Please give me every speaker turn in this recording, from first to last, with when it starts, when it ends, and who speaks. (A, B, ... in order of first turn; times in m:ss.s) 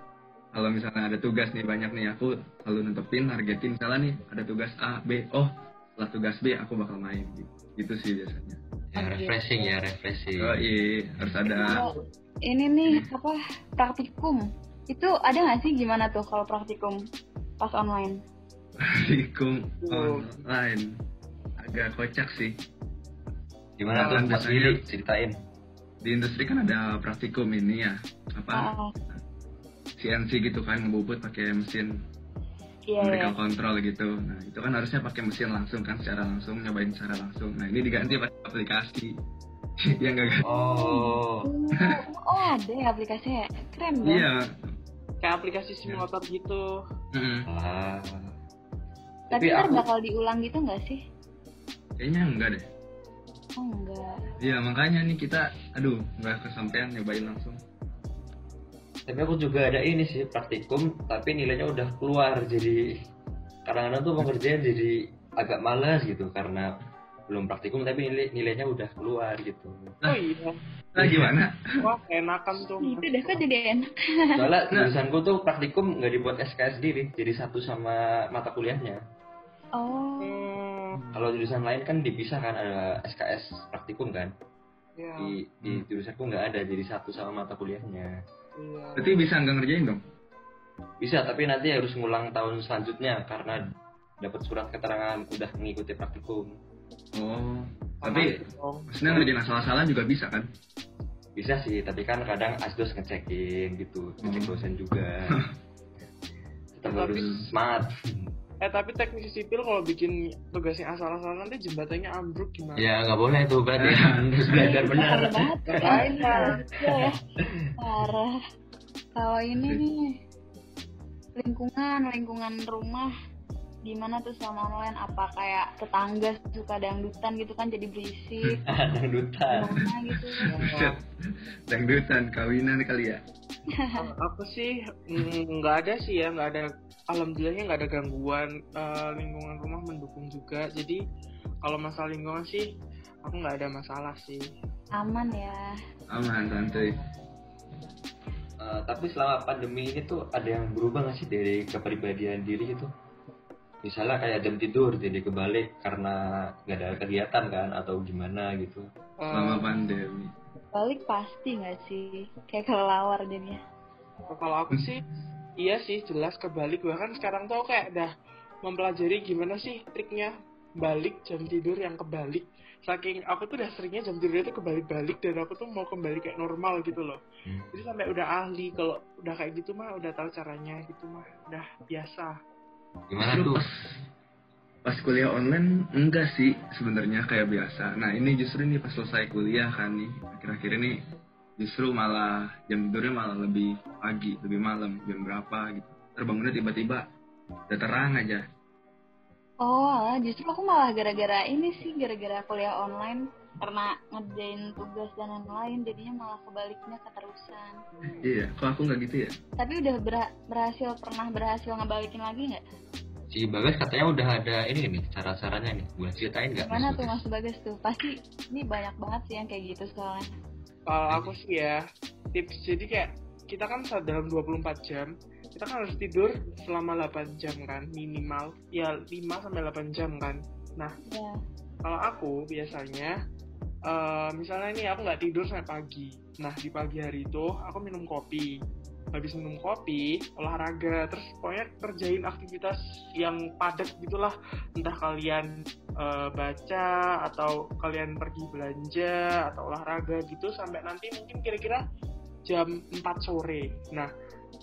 0:00.5-0:08.6 A
0:08.9-0:10.6 B
0:09.0-0:09.4 C
0:10.4-0:11.8 A
0:11.5-0:11.9 C
0:11.6-0:12.0 D
0:12.4-0:17.0 C
0:17.6-0:18.2 C
0:18.8-0:20.9 A
0:19.8-0:20.4 D
0:21.6-0:22.5 A
0:23.8-0:25.3 B
0:23.9-0:24.8 A
0:23.9-0:24.3 D
0:26.0-0:29.2 A
0:28.5-0:28.9 C
0:30.0-0:32.0 A
0:32.9-0:33.3 C
0:33.0-0:39.2 A
0:39.8-0:40.4 A
0:40.4-0:44.2 C
0:40.4-0:41.5 B
0:44.0-0:44.5 A
0:45.2-0:46.6 D
0:47.1-0:47.5 A
0:47.5-0:48.3 B
0:49.3-0:49.8 B
0:49.3-0:51.0 C
0:52.0-0:52.6 A
0:53.6-0:54.2 C
0:54.4-0:57.6 A
0:59.1-1:02.9 B
1:03.6-1:06.7 B
1:07.3-1:10.0 B
1:10.0-1:10.6 D
1:11.0-1:11.8 A
1:11.0-1:11.3 B
1:11.8-1:13.4 D
1:12.8-1:14.4 C
1:14.4-1:19.0 B
1:19.8-1:20.4 C
1:20.2-1:21.0 D
1:20.9-1:21.3 A
1:21.1-1:24.3 B
1:25.0-1:25.4 D
1:25.2-1:28.2 B
1:28.6-1:29.3 D
1:29.0-1:30.0 A
1:31.0-1:33.6 B
1:34.2-1:36.6 B
1:37.1-1:40.5 A
1:38.0-1:39.3 D
1:41.4-1:45.3 B
1:44.2-1:44.6 A
1:46.7-1:48.3 B
1:46.9-1:47.4 D
1:47.1-1:47.4 A
1:48.6-1:52.9 D
1:52.8-1:57.7 B
1:53.8-1:54.8 A
1:54.5-1:57.2 C
1:55.8-1:56.6 D
1:57.8-1:58.4 C
1:59.2-2:00.2 C
1:59.6-1:59.8 A
2:01.4-2:03.1 C
2:03.8-2:08.6 C
2:08.7-2:09.8 B
2:09.5-2:10.5 C
2:10.1-2:11.0 A
2:10.5-2:11.0 D
2:11.7-2:13.2 A
2:13.8-2:14.1 C
2:14.0-2:21.0 D
2:21.6-2:22.7 D
2:23.2-2:24.5 D
2:25.0-2:25.7 C
2:26.1-2:27.0 A
2:28.6-2:32.9 B
2:33.8-2:38.9 B
2:39.2-2:39.7 D
2:39.3-2:40.3 A
2:40.7-2:43.6 C
2:44.3-2:45.0 D
2:45.6-2:48.1 D
2:48.6-2:57.2 D
2:57.4-2:57.8 B
2:57.7-3:02.3 D
3:03.1-3:03.6 B
3:03.2-3:04.0 A
3:04.8-3:11.0 A
3:11.6-3:17.0 A
3:17.7-3:18.4 A
3:19.6-3:27.8 C
3:28.2-3:29.3 A
3:29.6-3:32.6 C
3:33.3-3:37.2 B
3:36.6-3:40.3 C
3:40.9-3:41.8 D
3:41.1-3:41.4 B
3:42.3-3:51.0 D
3:51.0-3:51.4 C
3:51.8-3:53.2 D
3:53.9-3:58.6 D
3:59.1-4:11.8 D
4:12.4-4:14.1 D